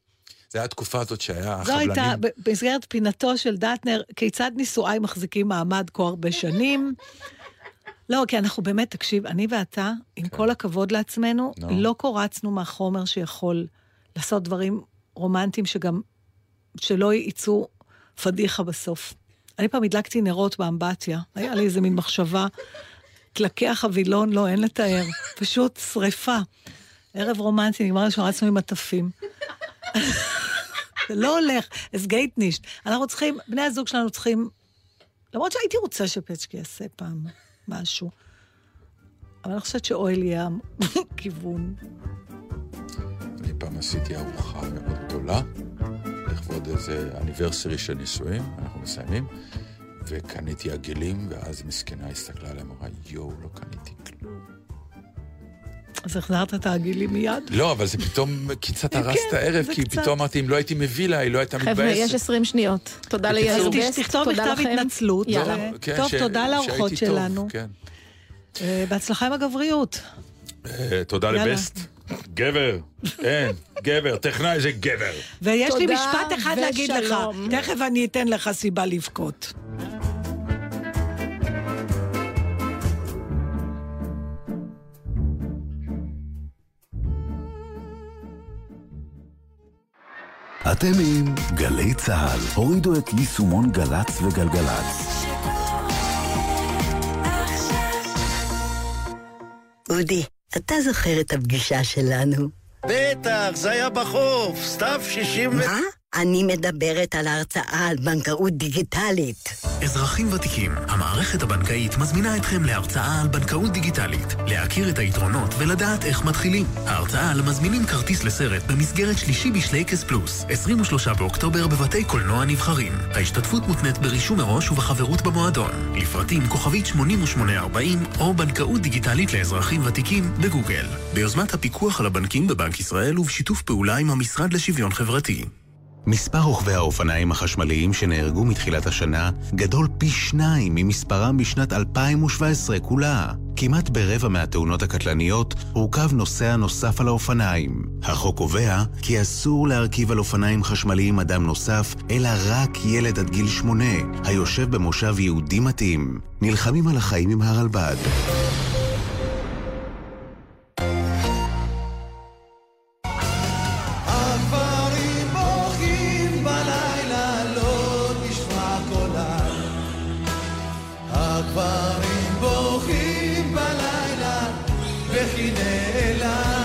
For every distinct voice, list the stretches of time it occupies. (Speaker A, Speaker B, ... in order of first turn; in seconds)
Speaker A: 0.5-2.2, 11.6-11.9, 43.4-45.5, 46.2-49.3, 50.0-54.2, 57.5-62.2, 63.2-63.9, 65.3-67.7, 70.6-75.2
Speaker B: 1.6-7.0, 8.1-16.0, 16.8-22.5, 23.3-26.4, 27.1-29.1, 29.9-30.5, 31.1-34.5, 35.3-38.1, 39.4-41.8, 56.0-57.6, 58.9-60.1, 63.5-67.5, 68.6-70.0, 71.3-71.8, 75.4-79.5
Speaker C: 61.6-65.6, 75.7-77.6
Speaker D: 90.7-95.0, 168.1-168.9, 171.6-172.6, 173.2-174.0, 175.3-176.1
Speaker E: 99.9-102.5, 105.6-109.5
Speaker F: 102.8-105.7
Speaker G: 109.8-135.5
Speaker H: 136.1-158.1